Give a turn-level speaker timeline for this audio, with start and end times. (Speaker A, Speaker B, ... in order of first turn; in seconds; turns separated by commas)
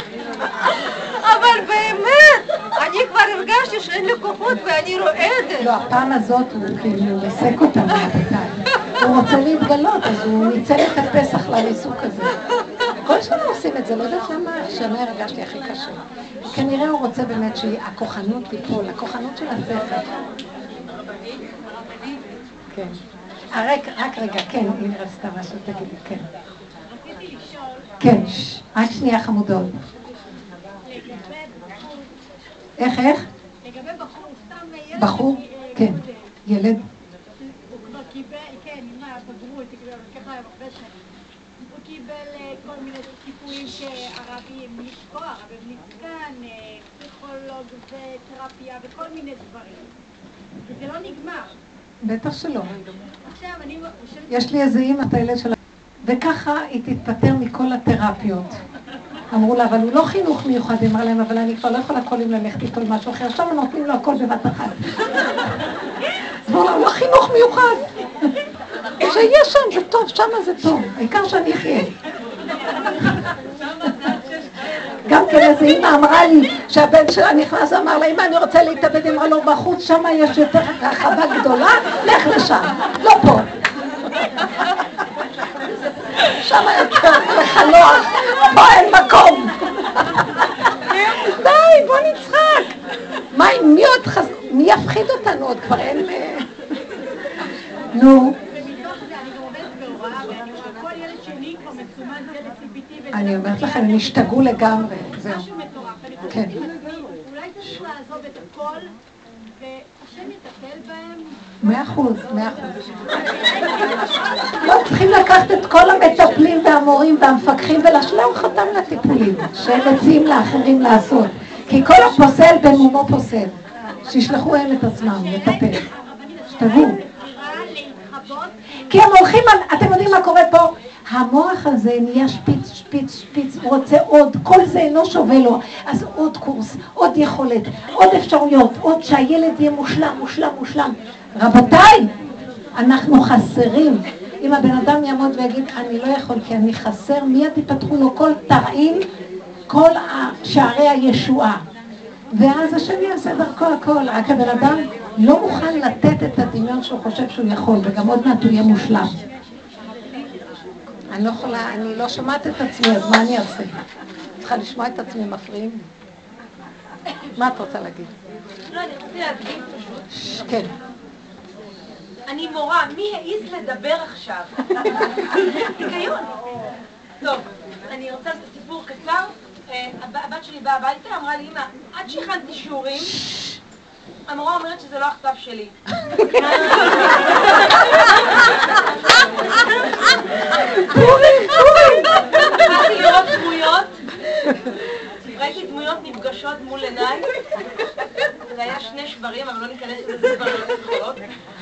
Speaker A: 1.2-5.7, Speaker B: 5.6-12.3, Speaker B: 13.0-20.1, Speaker B: 22.7-23.0, Speaker B: 23.5-26.3, Speaker C: 26.9-28.4, Speaker B: 28.0-29.8, Speaker C: 30.8-32.1, Speaker B: 32.8-33.3, Speaker C: 33.6-36.3, Speaker B: 34.9-36.8, Speaker C: 37.4-40.9, Speaker C: 41.7-49.9, Speaker C: 50.6-51.5, Speaker B: 52.0-52.7, Speaker C: 53.0-54.5, Speaker B: 54.3-58.6, Speaker B: 59.3-65.7, Speaker B: 66.4-68.4, Speaker B: 69.0-71.9, Speaker B: 75.0-83.5, Speaker B: 84.3-84.8, Speaker B: 86.1-92.7, Speaker B: 93.3-96.6, Speaker B: 97.9-98.3, Speaker C: 98.3-109.0, Speaker B: 103.1-105.5, Speaker B: 106.3-106.6, Speaker C: 109.5-115.1, Speaker B: 111.6-112.8, Speaker B: 114.6-125.8, Speaker C: 121.7-122.4, Speaker C: 124.1-129.0, Speaker B: 126.5-127.0, Speaker B: 128.9-142.1, Speaker B: 142.8-149.1, Speaker B: 149.7-151.6, Speaker B: 152.3-159.2, Speaker C: 159.8-160.8, Speaker B: 161.1-163.8, Speaker B: 164.4-165.9, Speaker B: 167.3-168.1, Speaker D: 168.7-170.1, Speaker B: 170.1-170.7, Speaker D: 172.2-176.3, Speaker D: 177.2-183.2, Speaker B: 183.0-183.6, Speaker D: 184.3-185.7, Speaker B: 185.9-186.9, Speaker D: 186.3-191.3, Speaker B: 190.8-192.6, Speaker D: 192.0-194.0, Speaker D: 195.2-197.3, Speaker D: 198.5-201.2